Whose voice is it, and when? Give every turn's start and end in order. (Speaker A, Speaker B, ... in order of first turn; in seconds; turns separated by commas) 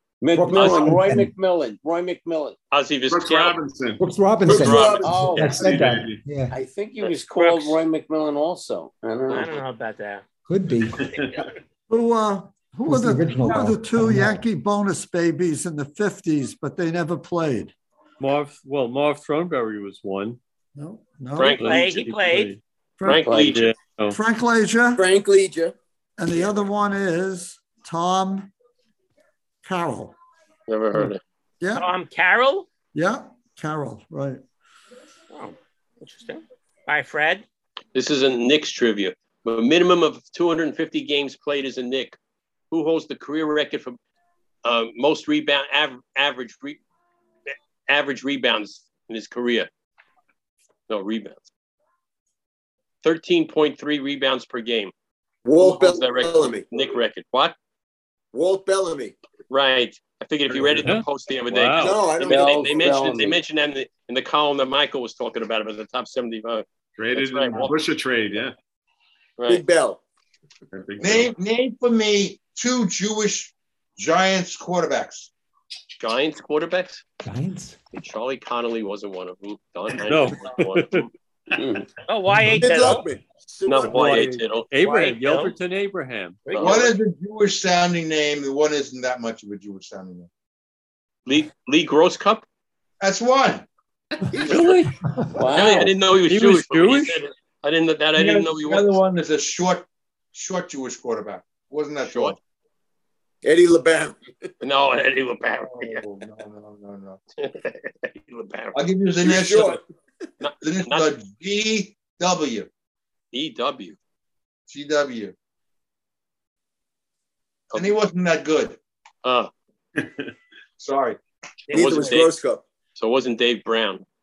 Speaker A: 0.2-2.6, Speaker B: 0.3-1.3, Speaker C: 0.5-1.0, Speaker C: 2.7-3.6, Speaker D: 3.1-4.0, Speaker B: 4.0-6.6, Speaker E: 4.5-5.4, Speaker C: 4.5-5.2, Speaker A: 4.9-5.8, Speaker D: 5.4-6.2, Speaker A: 6.5-9.5, Speaker F: 7.4-7.8, Speaker F: 9.3-10.2, Speaker B: 10.5-11.1, Speaker F: 10.9-11.6, Speaker D: 11.0-11.5, Speaker G: 11.9-17.7, Speaker B: 12.9-14.4, Speaker H: 18.2-20.4, Speaker G: 20.8-21.7, Speaker C: 21.4-21.8, Speaker H: 21.6-22.6, Speaker F: 21.6-22.5, Speaker G: 23.0-23.5, Speaker C: 23.1-23.7, Speaker A: 23.1-23.6, Speaker H: 23.4-24.2, Speaker G: 24.1-25.1, Speaker E: 24.9-25.8, Speaker G: 26.2-28.5, Speaker G: 29.6-30.2, Speaker C: 30.7-31.2, Speaker G: 31.6-31.9, Speaker F: 31.7-32.7, Speaker G: 32.9-34.4, Speaker F: 35.3-37.5, Speaker C: 38.0-42.2, Speaker C: 42.7-44.0, Speaker C: 44.6-46.8, Speaker C: 47.9-49.7, Speaker C: 50.9-51.5, Speaker C: 53.0-54.9, Speaker E: 55.4-56.7, Speaker C: 55.6-57.5, Speaker E: 58.3-59.1, Speaker C: 59.5-66.7, Speaker D: 60.5-61.0, Speaker H: 60.8-62.0, Speaker E: 61.8-62.6, Speaker A: 62.1-63.4, Speaker D: 67.0-68.5, Speaker C: 67.2-67.8, Speaker C: 69.4-69.6, Speaker E: 69.5-70.0, Speaker D: 70.7-71.3, Speaker I: 71.0-75.3, Speaker C: 76.0-77.0, Speaker B: 77.2-77.8, Speaker C: 77.9-81.1, Speaker H: 80.0-81.1, Speaker A: 81.5-81.9, Speaker F: 82.1-83.0, Speaker B: 82.3-82.6, Speaker E: 82.6-84.1, Speaker C: 83.7-84.7, Speaker H: 83.8-86.4, Speaker F: 84.8-85.5, Speaker F: 86.5-86.9, Speaker C: 86.5-86.9, Speaker I: 86.6-90.3, Speaker C: 91.3-92.4, Speaker I: 93.0-93.7, Speaker H: 94.4-95.0, Speaker B: 95.0-95.5, Speaker A: 95.3-95.9, Speaker C: 95.5-98.9, Speaker H: 96.3-97.2, Speaker I: 98.2-102.4, Speaker C: 102.0-102.4, Speaker E: 103.4-104.2, Speaker C: 104.6-106.0, Speaker I: 105.6-107.2, Speaker C: 107.4-108.8, Speaker I: 108.8-109.8, Speaker E: 109.2-109.8, Speaker C: 110.4-111.1, Speaker I: 110.6-112.7, Speaker C: 113.3-114.0, Speaker I: 114.7-115.3, Speaker C: 117.7-118.0, Speaker I: 117.7-118.8, Speaker C: 119.2-119.5, Speaker D: 120.0-120.3, Speaker I: 120.8-121.2, Speaker F: 121.7-122.2, Speaker C: 121.7-122.3, Speaker E: 121.7-122.7, Speaker C: 123.0-124.0